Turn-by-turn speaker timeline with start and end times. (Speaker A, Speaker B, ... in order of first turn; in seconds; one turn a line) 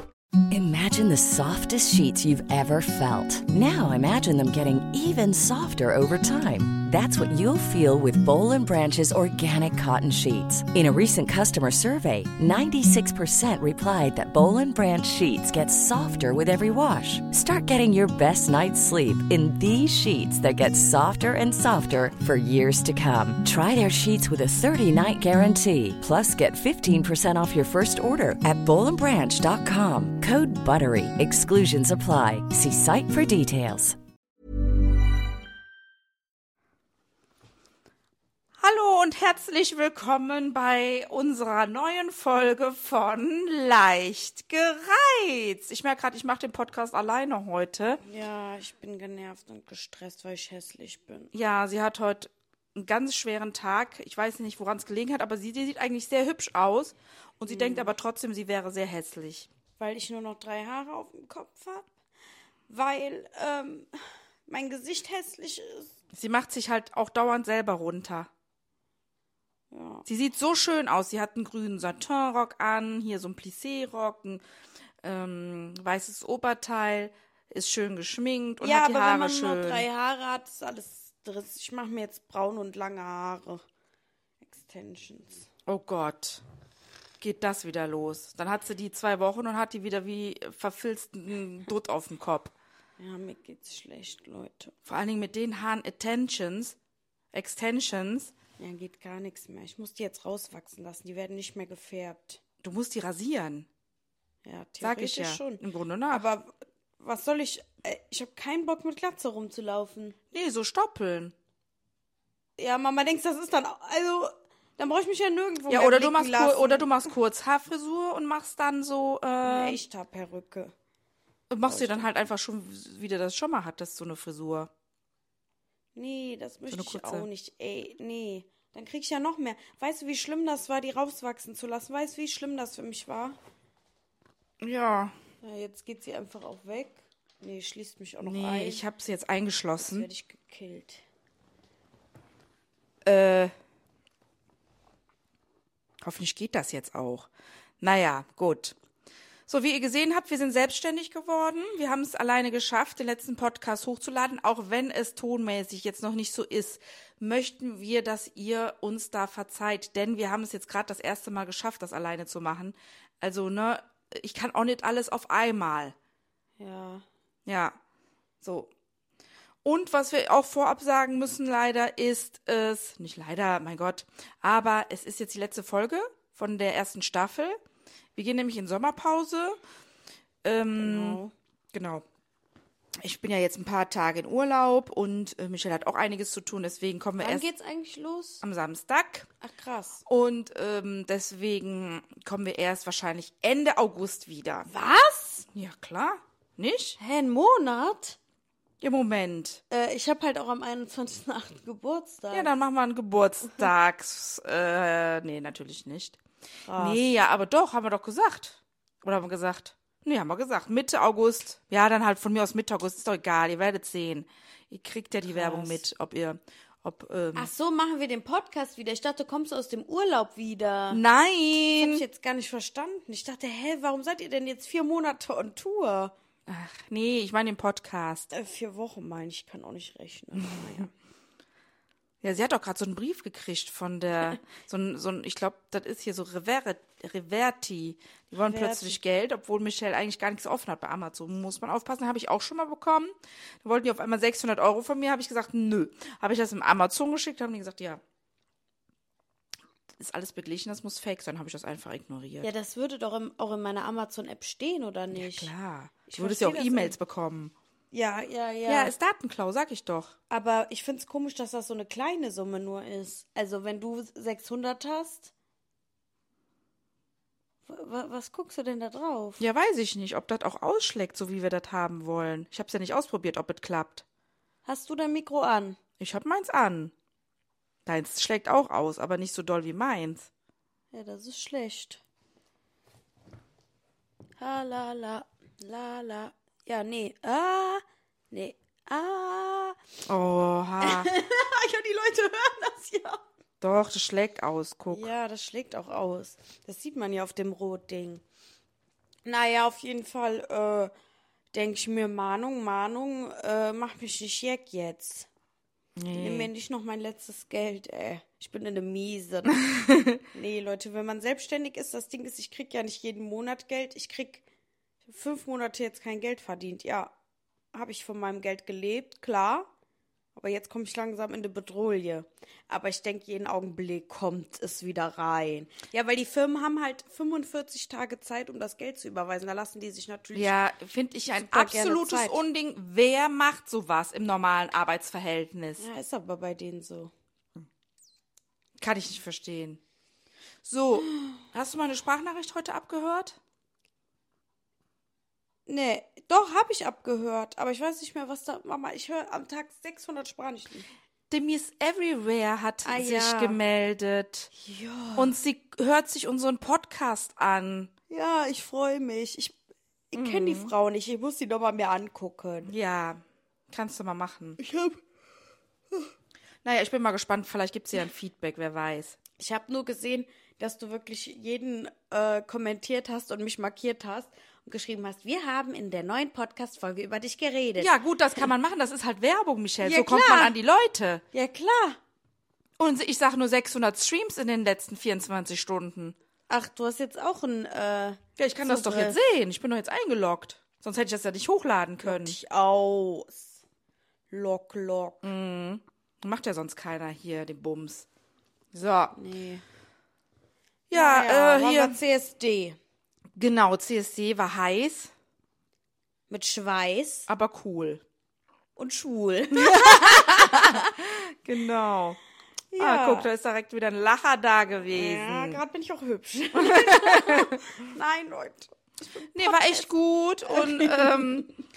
Speaker A: 0.5-34.0
Speaker B: 38.6-48.0
Speaker C: 48.0-51.3
Speaker B: 51.3-59.5
Speaker C: 57.5-58.0
Speaker C: 59.8-61.9
Speaker C: 62.7-63.9
Speaker C: 64.5-65.9
Speaker B: 66.1-68.3
Speaker C: 69.7-70.0
Speaker B: 70.1-74.4
Speaker B: 75.0-79.9
Speaker C: 78.6-83.6
Speaker C: 84.4-85.5
Speaker B: 85.7-86.4
Speaker B: 87.2-92.5
Speaker C: 93.0-94.7
Speaker B: 94.9-96.8
Speaker B: 97.3-98.3
Speaker C: 98.6-102.4
Speaker B: 102.6-103.7
Speaker C: 104.5-110.2
Speaker B: 104.8-106.3
Speaker B: 110.3-111.3
Speaker C: 112.6-116.9
Speaker B: 115.7-119.8
Speaker C: 119.4-120.7
Speaker B: 121.5-124.7
Speaker C: 121.6-122.1
Speaker C: 126.0-133.4
Speaker B: 126.7-127.3
Speaker B: 134.6-135.1
Speaker C: 135.4-138.8
Speaker B: 138.2-140.1
Speaker C: 139.8-141.0
Speaker B: 143.1-143.5
Speaker B: 146.0-147.3
Speaker B: 147.8-148.8
Speaker B: 149.5-165.9
Speaker C: 166.6-167.1
Speaker B: 167.5-167.8
Speaker B: 168.4-168.7
Speaker B: 169.7-177.6
Speaker B: 178.2-179.6
Speaker B: 180.4-181.2
Speaker C: 180.8-181.3
Speaker B: 181.7-182.0
Speaker B: 183.0-187.4
Speaker C: 187.2-188.4
Speaker B: 188.4-189.3
Speaker C: 189.4-190.0
Speaker B: 190.1-194.7
Speaker C: 194.7-195.5
Speaker B: 195.5-197.0
Speaker C: 197.0-198.2
Speaker B: 198.8-199.6
Speaker C: 199.7-202.5
Speaker B: 202.3-206.2
Speaker C: 206.7-207.1
Speaker B: 206.8-217.5
Speaker C: 215.3-215.8
Speaker C: 217.4-221.0
Speaker B: 220.9-222.1
Speaker C: 221.7-226.1
Speaker B: 226.5-228.3
Speaker C: 228.3-230.9
Speaker B: 232.2-243.1
Speaker C: 238.4-239.0
Speaker B: 243.6-248.0
Speaker B: 250.0-252.5
Speaker C: 252.4-255.5
Speaker B: 255.1-257.5
Speaker C: 256.1-257.0
Speaker C: 257.9-258.9
Speaker B: 258.7-260.2
Speaker C: 260.3-265.3
Speaker C: 267.7-269.4
Speaker B: 269.4-274.1
Speaker C: 274.6-275.8
Speaker B: 276.0-276.9
Speaker B: 277.9-280.3
Speaker C: 280.9-282.0
Speaker C: 284.4-289.8
Speaker B: 290.1-291.1
Speaker C: 290.8-293.2
Speaker B: 293.6-295.1
Speaker C: 294.9-298.2
Speaker C: 299.2-300.9
Speaker C: 301.5-305.3
Speaker B: 306.0-306.5
Speaker C: 306.1-309.6
Speaker C: 310.3-314.4
Speaker C: 315.1-317.1
Speaker C: 317.7-319.7
Speaker C: 320.4-330.6
Speaker B: 330.3-335.8
Speaker C: 331.3-332.4
Speaker C: 335.8-337.1
Speaker B: 338.8-339.8
Speaker B: 340.6-343.4
Speaker C: 345.7-350.9
Speaker B: 351.3-354.5
Speaker C: 352.9-353.6
Speaker C: 354.5-355.4
Speaker B: 355.1-357.9
Speaker C: 358.1-359.6
Speaker C: 360.1-362.7
Speaker B: 360.1-360.7
Speaker B: 362.7-364.6
Speaker C: 364.6-365.0
Speaker B: 366.6-369.2
Speaker C: 369.4-377.9
Speaker B: 377.8-381.2
Speaker C: 379.8-380.6
Speaker C: 381.3-382.0
Speaker B: 382.8-386.1
Speaker C: 386.5-389.2
Speaker B: 388.4-392.4
Speaker C: 392.0-393.6
Speaker C: 394.3-395.2
Speaker B: 395.2-398.1
Speaker B: 398.7-399.1
Speaker C: 399.1-399.6
Speaker B: 400.9-402.0
Speaker C: 400.9-402.8
Speaker B: 403.4-405.1
Speaker C: 406.3-407.3
Speaker B: 407.3-408.0
Speaker C: 408.8-410.9
Speaker B: 409.5-412.2
Speaker C: 412.7-413.3
Speaker B: 412.8-415.6
Speaker C: 414.9-419.9
Speaker B: 416.6-417.6
Speaker B: 419.3-421.5
Speaker C: 420.5-421.5